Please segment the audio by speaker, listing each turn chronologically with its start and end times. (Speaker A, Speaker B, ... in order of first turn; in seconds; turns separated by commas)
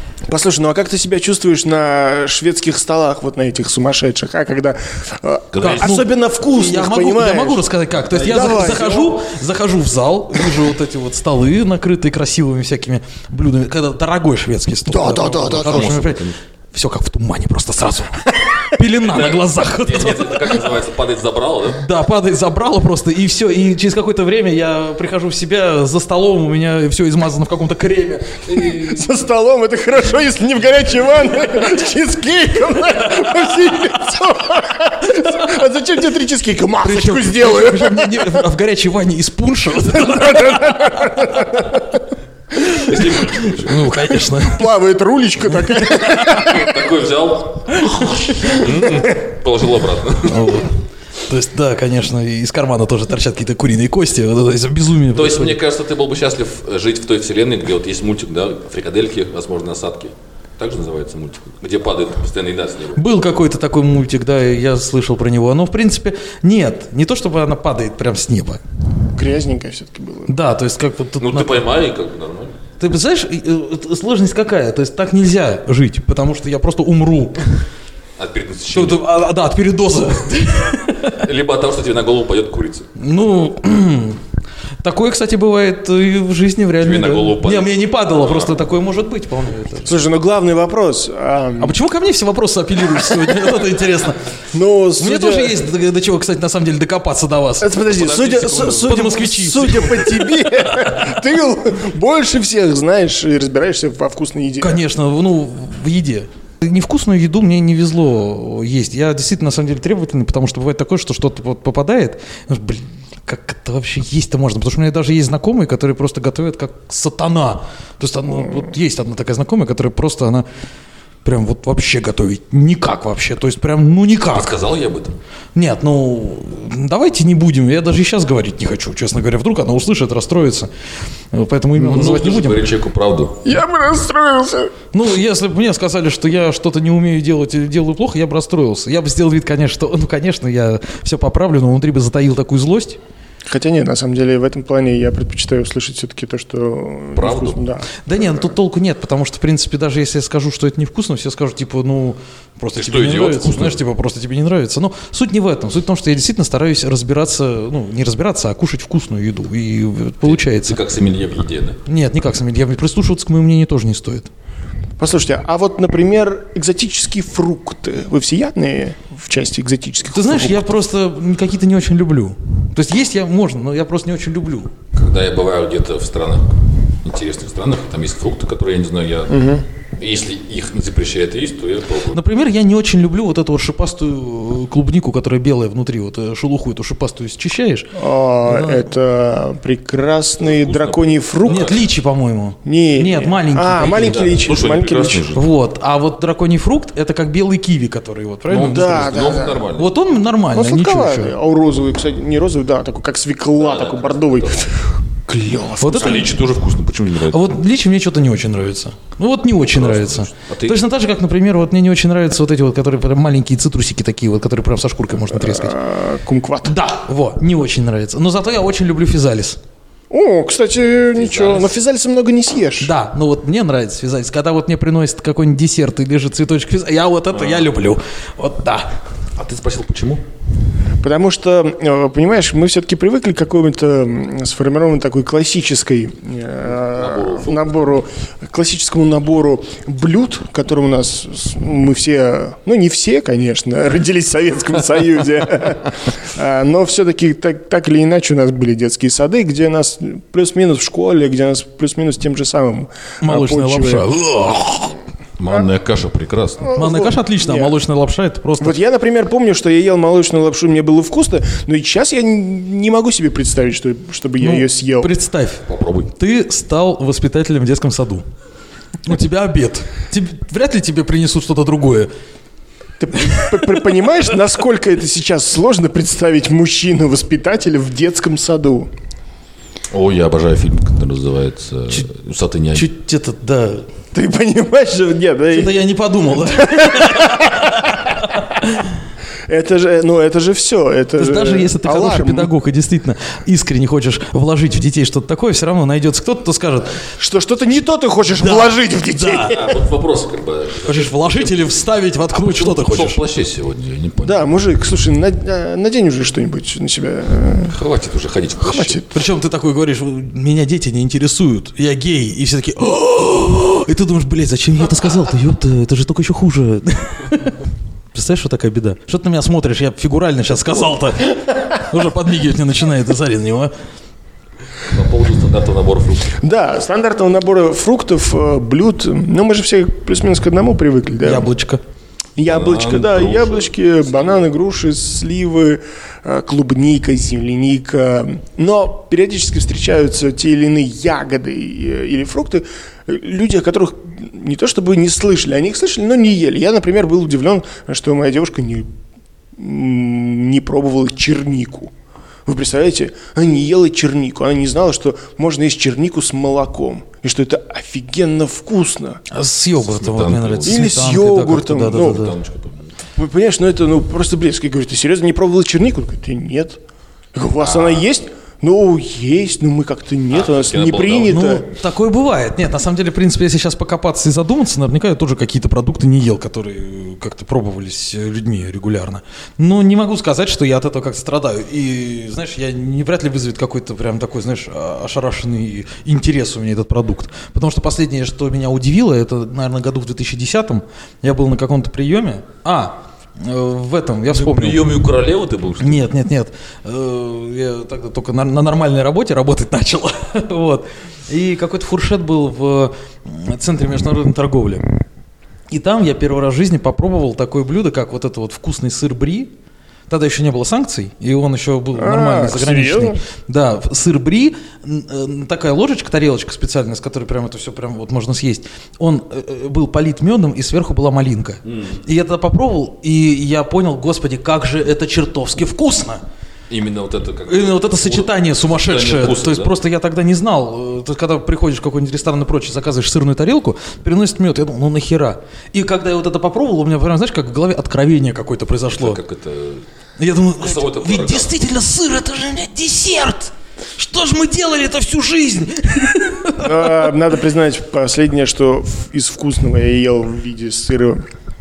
Speaker A: 0.3-9.2, Speaker B: 5.5-5.9, Speaker C: 5.6-20.6, Speaker A: 14.9-15.9, Speaker B: 15.3-16.3, Speaker B: 19.0-21.8, Speaker C: 21.7-29.0, Speaker A: 28.6-38.4, Speaker C: 36.8-41.5, Speaker A: 39.9-41.8, Speaker C: 42.5-44.7, Speaker B: 42.8-44.0, Speaker A: 44.3-46.7, Speaker C: 45.6-46.5, Speaker B: 46.1-50.6, Speaker C: 47.7-48.6, Speaker C: 50.2-55.6, Speaker B: 55.1-63.0, Speaker C: 63.0-68.6, Speaker A: 69.1-70.3, Speaker C: 70.3-71.6, Speaker B: 71.2-72.6, Speaker C: 72.8-77.4, Speaker B: 78.2-79.0, Speaker C: 78.7-81.2, Speaker B: 81.1-82.9, Speaker C: 83.0-84.2, Speaker C: 84.8-89.9, Speaker B: 86.8-88.6, Speaker A: 89.8-91.8, Speaker C: 91.6-94.2, Speaker A: 94.5-95.6, Speaker C: 95.0-97.8, Speaker A: 97.6-104.8, Speaker B: 97.8-99.1, Speaker C: 98.8-100.8, Speaker C: 104.6-120.5, Speaker C: 121.2-124.5, Speaker B: 124.3-125.1, Speaker C: 125.5-130.7, Speaker C: 131.3-132.6, Speaker B: 131.8-133.4, Speaker A: 133.4-134.7, Speaker C: 134.9-143.0, Speaker A: 143.5-147.9, Speaker B: 147.1-147.6, Speaker C: 148.1-160.8, Speaker B: 152.8-153.8, Speaker B: 160.2-161.8, Speaker C: 161.8-164.3, Speaker A: 165.0-170.8, Speaker C: 170.1-174.7, Speaker B: 174.9-182.2, Speaker A: 179.3-179.6, Speaker C: 182.1-188.9, Speaker A: 187.9-191.7, Speaker B: 190.4-191.8, Speaker C: 191.4-194.2, Speaker A: 192.6-195.3, Speaker B: 193.8-195.4, Speaker C: 195.3-201.3, Speaker B: 198.5-199.9, Speaker A: 198.6-199.6, Speaker A: 200.5-206.3, Speaker B: 203.6-204.7, Speaker C: 205.8-206.3, Speaker B: 205.9-207.4, Speaker C: 207.3-215.8, Speaker B: 209.7-210.8, Speaker A: 215.3-216.8, Speaker C: 216.6-219.6, Speaker A: 220.1-222.9, Speaker B: 221.2-221.7, Speaker C: 222.8-228.9, Speaker B: 227.3-227.7, Speaker B: 229.4-230.2, Speaker A: 231.0-254.1, Speaker B: 236.8-237.6, Speaker C: 253.2-255.0, Speaker B: 255.4-256.7, Speaker A: 256.6-257.8, Speaker C: 256.8-258.8, Speaker A: 258.6-265.1, Speaker C: 264.4-268.2, Speaker B: 265.7-266.1, Speaker C: 269.0-272.1, Speaker A: 273.0-278.9, Speaker C: 273.2-273.6, Speaker B: 279.9-282.9, Speaker C: 282.7-283.9, Speaker A: 284.1-285.8, Speaker C: 285.5-288.9, Speaker A: 286.4-288.1, Speaker A: 289.5-292.5, Speaker C: 291.2-297.0, Speaker A: 297.2-299.8, Speaker C: 298.4-299.5, Speaker B: 299.5-304.5, Speaker C: 300.9-303.2, Speaker A: 304.2-307.7, Speaker B: 307.7-309.0, Speaker A: 308.6-309.1, Speaker C: 309.1-317.6, Speaker C: 318.1-323.7, Speaker B: 324.9-326.4, Speaker A: 326.4-331.5, Speaker C: 331.2-331.8, Speaker A: 332.4-348.9, Speaker B: 332.4-334.4, Speaker A: 349.6-351.9, Speaker A: 352.4-359.2, Speaker C: 359.3-362.3, Speaker B: 359.8-360.9, Speaker A: 360.6-362.3, Speaker B: 361.9-362.9, Speaker A: 363.2-366.8, Speaker A: 367.3-371.6, Speaker B: 367.6-368.0, Speaker B: 370.3-371.5, Speaker C: 371.3-394.9, Speaker B: 394.3-396.0, Speaker C: 395.8-404.8, Speaker C: 405.7-409.5, Speaker C: 410.1-426.2, Speaker A: 411.9-413.2, Speaker B: 421.6-422.0, Speaker B: 426.7-429.7, Speaker C: 427.5-439.2, Speaker B: 438.9-439.8, Speaker C: 440.2-447.1, Speaker B: 440.6-441.6, Speaker A: 446.6-451.2